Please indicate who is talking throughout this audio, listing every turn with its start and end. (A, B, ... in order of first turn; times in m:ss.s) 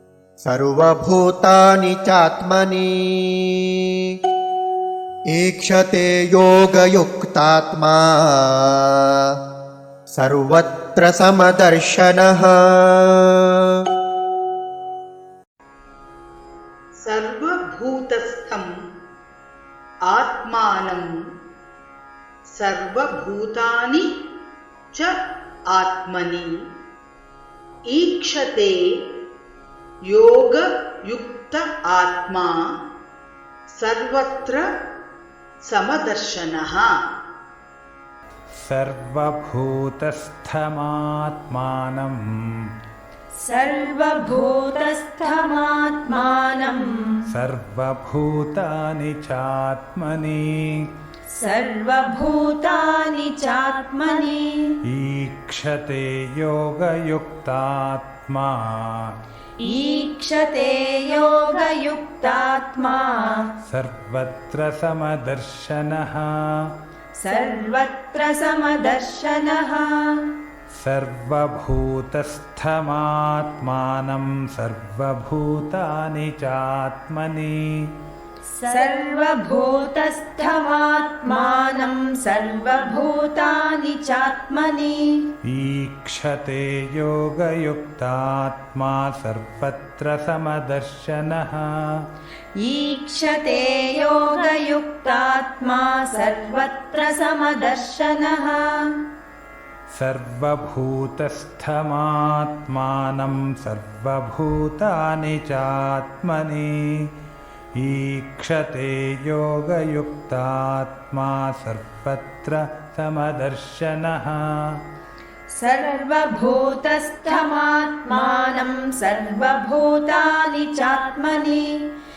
0:00.4-0:03.9 A
0:05.3-0:09.1 A
0:10.1-0:13.4 A
0:17.0-0:18.7 B
0:20.1-0:21.1 B
0:22.5-0:24.0 B
0:25.7-0:26.5 B
0:27.9-0:28.8 B
0:30.1-0:32.6 B
0:33.8-0:34.6 B
0:35.6-0:36.9 B
0:38.6-0:42.2 C
0:43.4-0:47.2 D
0:47.3-0:50.9 C
0:51.3-0:54.8 D
0:54.9-0:59.2 C
0:59.6-1:03.5 D
1:03.6-1:06.7 C
1:07.2-1:10.3 D
1:10.7-1:17.9 C
1:18.5-1:25.3 D
1:25.4-1:31.7 C
1:32.6-1:39.0 D
1:39.9-1:47.0 C
1:47.8-1:54.4 C
1:55.6-2:01.9 D